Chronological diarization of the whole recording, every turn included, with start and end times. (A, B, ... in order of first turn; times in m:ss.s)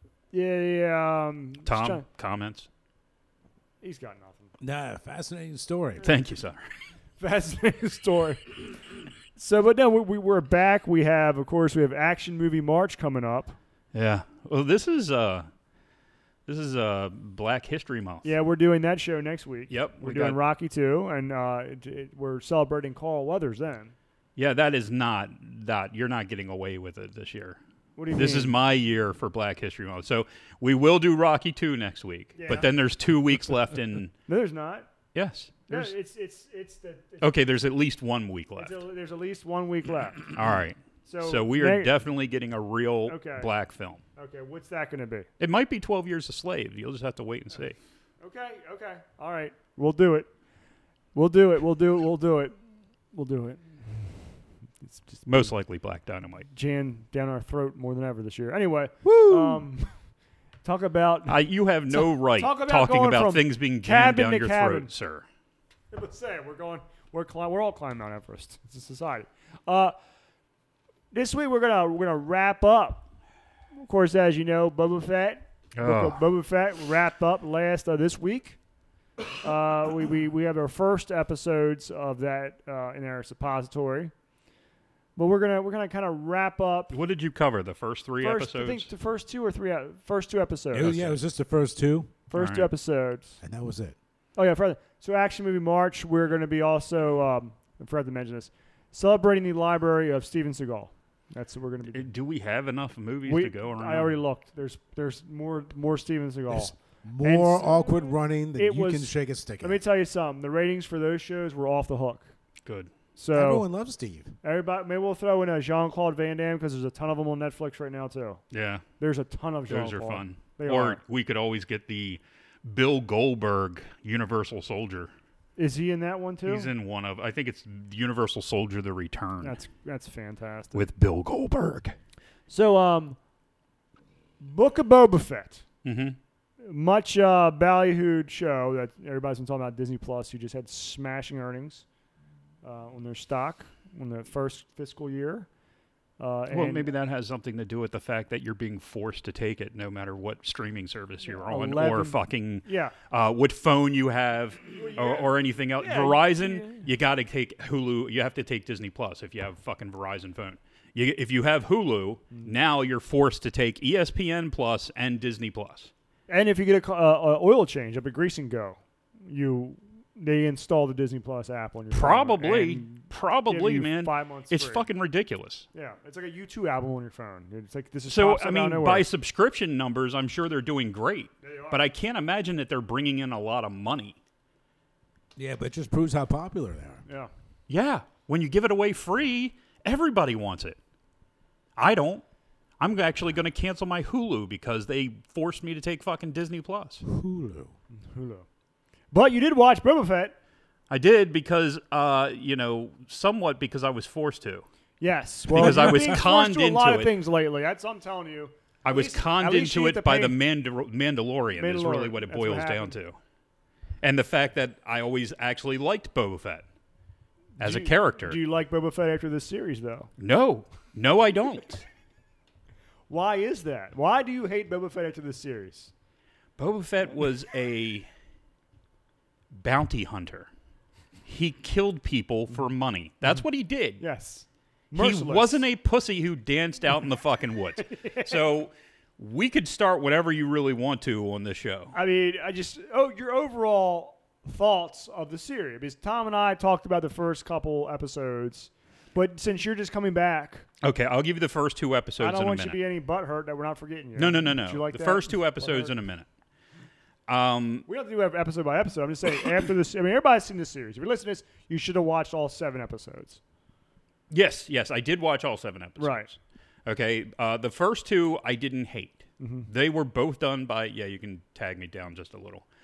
0:00.3-0:02.0 A
0:01.6-0:02.7 B
0:03.8-0:04.5 A
0:04.6-0:06.1 C
0:06.0-0:06.6 B
0:07.2-0:08.6 A
0:09.4-0:13.6 A
0:13.9-0:15.5 B
0:16.5-0:18.3 B
0:18.2-0:24.0 A
0:19.7-0:20.4 B
0:24.4-0:27.6 B
0:28.0-0:28.5 A
0:28.1-0:34.1 B
0:32.4-0:32.7 A
0:34.3-0:34.9 A
0:35.1-0:35.9 B
0:35.7-0:37.3 A
0:37.2-0:38.8 B
0:38.6-0:40.3 A
0:40.3-0:44.0 B
0:41.0-0:41.9 A
0:43.1-0:43.5 A
0:44.2-0:45.3 A
0:45.4-0:47.8 B
0:48.2-0:50.3 A
0:51.1-0:52.6 A
0:53.1-0:53.7 A
0:54.8-0:55.5 A
0:55.3-0:56.5 B
0:56.5-0:59.9 A
0:59.0-0:59.7 B
1:00.6-1:04.9 A
1:01.3-1:05.3 B
1:05.9-1:10.0 A
1:11.1-1:13.1 A
1:13.8-1:18.6 A
1:15.8-1:16.2 B
1:19.4-1:24.1 A
1:25.2-1:27.0 A
1:26.9-1:28.9 B
1:28.2-1:30.9 A
1:30.7-1:32.1 C
1:30.8-1:31.2 B
1:32.3-1:33.4 A
1:32.4-1:32.7 B
1:33.4-1:34.0 C
1:34.4-1:42.1 A
1:41.9-1:44.2 B
1:43.2-1:47.9 A
1:46.5-1:49.8 C
1:48.6-1:52.3 A
1:52.6-1:52.9 B
1:53.2-1:53.7 A
1:53.3-1:54.4 C
1:54.4-1:58.4 A
1:58.5-1:58.8 B
1:59.0-2:01.0 A
1:59.7-2:05.1 B
2:05.6-2:06.7 A
2:06.5-2:09.6 B
2:09.4-2:10.8 A
2:10.7-2:12.0 B
2:12.5-2:13.2 A
2:14.4-2:15.6 A
2:15.8-2:16.2 B
2:16.6-2:21.8 A
2:22.6-2:25.5 A
2:26.2-2:26.9 A
2:26.5-2:45.9 B
2:31.2-2:33.0 A
2:34.7-2:36.8 A
2:46.3-2:54.9 A
2:51.9-2:55.7 B
2:55.7-2:59.1 A
2:58.1-3:04.2 B
3:01.4-3:01.8 A
3:05.4-3:07.0 C
3:07.1-3:07.3 A
3:07.7-3:10.8 B
3:11.8-3:12.2 B
3:12.8-3:17.0 B
3:17.0-3:17.7 C
3:18.1-3:18.5 A
3:19.1-3:20.4 A
3:20.9-3:24.6 B
3:25.0-3:30.4 A
3:25.5-3:27.1 B
3:25.6-3:26.0 C
3:28.8-3:33.2 B
3:31.6-3:33.0 A
3:34.0-3:36.6 B
3:37.6-3:40.1 A
3:37.6-3:38.4 B
3:40.2-3:41.8 B
3:43.1-3:45.9 A
3:46.6-3:48.1 B
3:49.5-3:50.5 B
3:51.3-3:54.0 B
3:54.0-3:55.7 A
3:55.0-4:01.9 B
3:57.8-3:58.4 A
4:01.9-4:10.7 A
4:10.8-4:12.8 B
4:12.2-4:15.9 A
4:14.2-4:16.3 B
4:17.3-4:17.9 B
4:17.9-4:23.4 A
4:24.3-4:32.6 B
4:26.0-4:26.3 A
4:29.4-4:29.7 A